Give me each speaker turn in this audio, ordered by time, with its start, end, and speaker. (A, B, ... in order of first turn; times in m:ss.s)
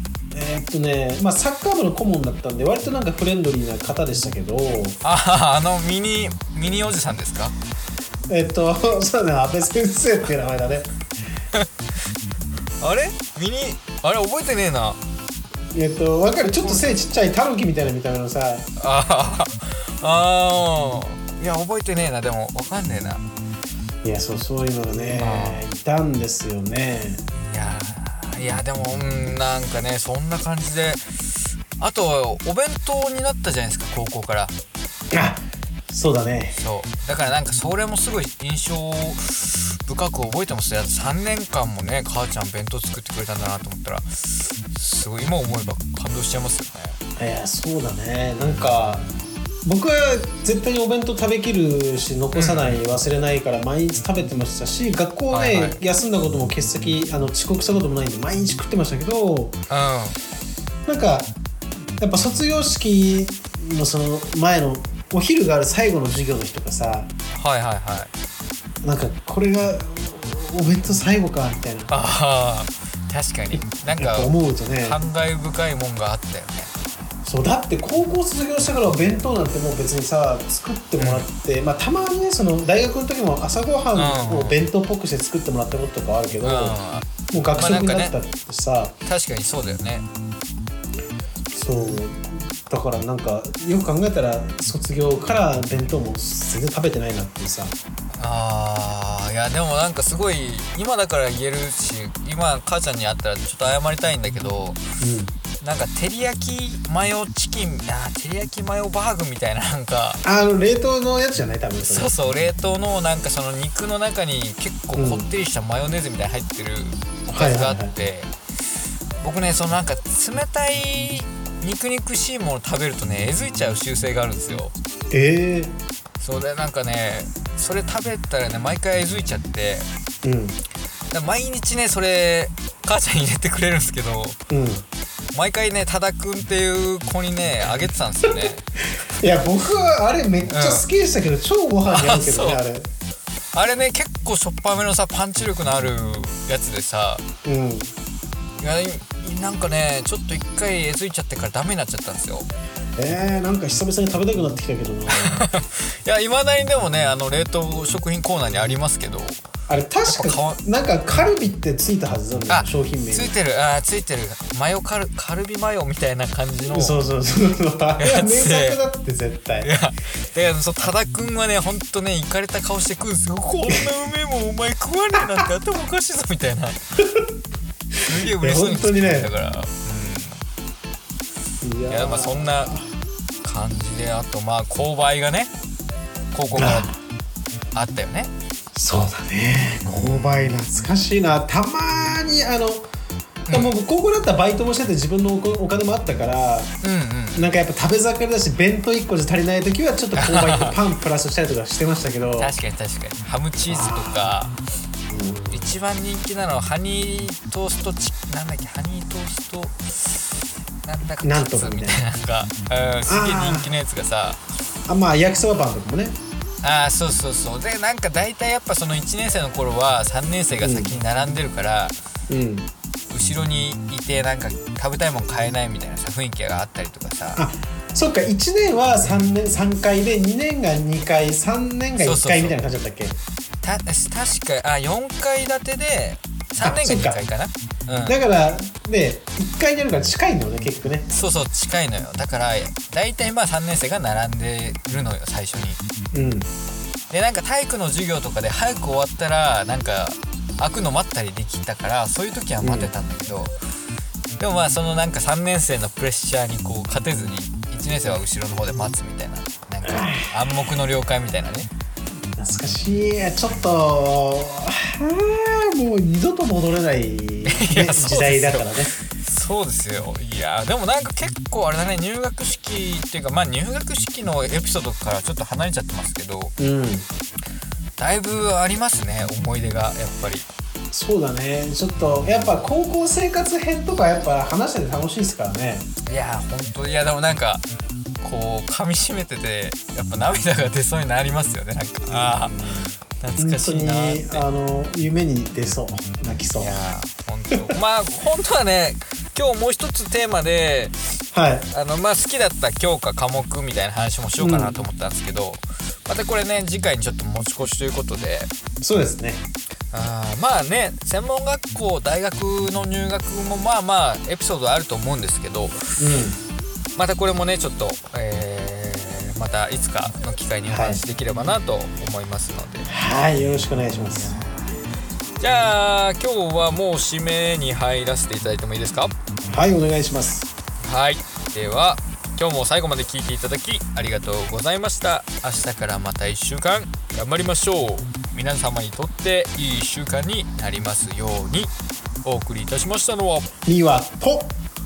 0:00.3-0:05.0 A
0:05.0-0:07.6 B
0:08.3-0:10.9 A
0:12.8-0:15.0 B
0:15.7-0:18.7 A
0:16.4-0:16.9 B
0:18.8-0:23.2 B
0:24.0-0:27.3 A
0:25.2-0:25.6 B
0:27.3-0:34.6 B
0:35.1-0:36.6 A
0:36.5-0:47.0 B
0:47.2-0:49.1 A
0:48.4-0:49.3 B
0:49.6-0:59.6 A
0:52.3-0:52.8 B
0:55.3-0:55.8 B
0:59.7-1:00.2 B
1:00.9-1:01.3 A
1:02.0-1:07.1 A
1:07.4-1:08.1 B
1:08.8-1:11.9 A
1:11.9-1:16.7 B
1:13.5-1:15.0 A
1:17.2-1:26.8 A
1:21.0-1:21.3 B
1:23.9-1:24.6 B
1:26.4-1:28.1 B
1:27.3-1:28.9 A
1:29.1-1:30.1 B
1:31.5-1:37.8 A
1:38.1-1:44.8 B
1:45.0-1:45.3 A
1:45.6-1:50.2 B
1:50.2-1:52.1 A
1:51.8-1:58.3 B
1:54.9-1:55.2 A
1:57.3-1:57.9 A
1:59.2-2:04.7 B
2:05.1-2:05.8 A
2:06.2-2:09.9 B
2:10.2-2:10.6 A
2:11.1-2:14.4 B
2:14.5-2:14.8 A
2:15.3-2:18.6 B
2:19.1-2:22.9 A
2:20.5-2:20.9 B
2:21.9-2:22.6 B
2:23.5-2:27.2 B
2:27.4-2:27.9 A
2:28.6-2:32.5 B
2:33.0-2:35.4 A
2:35.1-2:39.4 B
2:39.7-2:43.3 A
2:40.1-2:40.6 B
2:42.5-2:47.0 B
2:46.7-2:49.7 A
2:48.0-2:48.8 B
2:49.6-2:56.8 B
2:58.0-2:59.3 A
2:58.0-3:00.4 B
3:01.6-3:02.9 A
3:01.9-3:02.8 B
3:03.4-3:05.5 B
3:06.3-3:06.9 B
3:06.6-3:07.0 A
3:07.7-3:08.3 B
3:08.8-3:12.9 A
3:09.9-3:10.5 B
3:13.4-3:13.8 B
3:13.5-3:16.8 A
3:16.8-3:17.6 B
3:17.3-3:22.5 A
3:20.1-3:20.8 B
3:22.4-3:24.6 B
3:23.7-3:24.3 A
3:25.1-3:25.7 A
3:25.5-3:30.3 B
3:30.8-3:34.4 B
3:31.2-3:32.0 A
3:33.1-3:33.7 A
3:34.9-3:36.2 A
3:36.6-3:42.0 B
3:40.6-3:40.9 A
3:42.3-3:42.7 A
3:43.1-3:47.4 B
3:47.4-3:53.2 A
3:49.0-3:49.3 B
3:52.0-3:52.6 B
3:53.6-3:58.2 B
3:56.6-3:57.2 A
3:58.1-4:01.1 A
4:01.1-4:05.8 B
4:06.1-4:06.5 A
4:07.1-4:13.6 B
4:12.6-4:12.9 A
4:14.4-4:21.7 B
4:19.8-4:20.6 A
4:22.4-4:28.9 A
4:27.4-4:36.5 B
4:36.6-4:37.1 A
4:38.0-4:40.5 B
4:40.9-4:45.9 A
4:42.0-4:42.5 B
4:46.1-4:47.6 B
4:48.2-4:52.5 B
4:52.1-4:56.8 A
4:53.2-4:54.4 B
4:56.6-5:00.9 B
5:01.3-5:01.7 A
5:01.7-5:08.5 B
5:04.4-5:04.8 A
5:08.8-5:09.4 A
5:09.9-5:15.8 B
5:16.0-5:16.4 A
5:17.0-5:22.9 B
5:20.7-5:21.0 A
5:22.9-5:24.4 A
5:24.2-5:24.8 B
5:25.4-5:29.1 B
5:29.5-5:30.5 A
5:30.8-5:41.7 B
5:42.2-5:43.5 B
5:43.6-5:44.5 A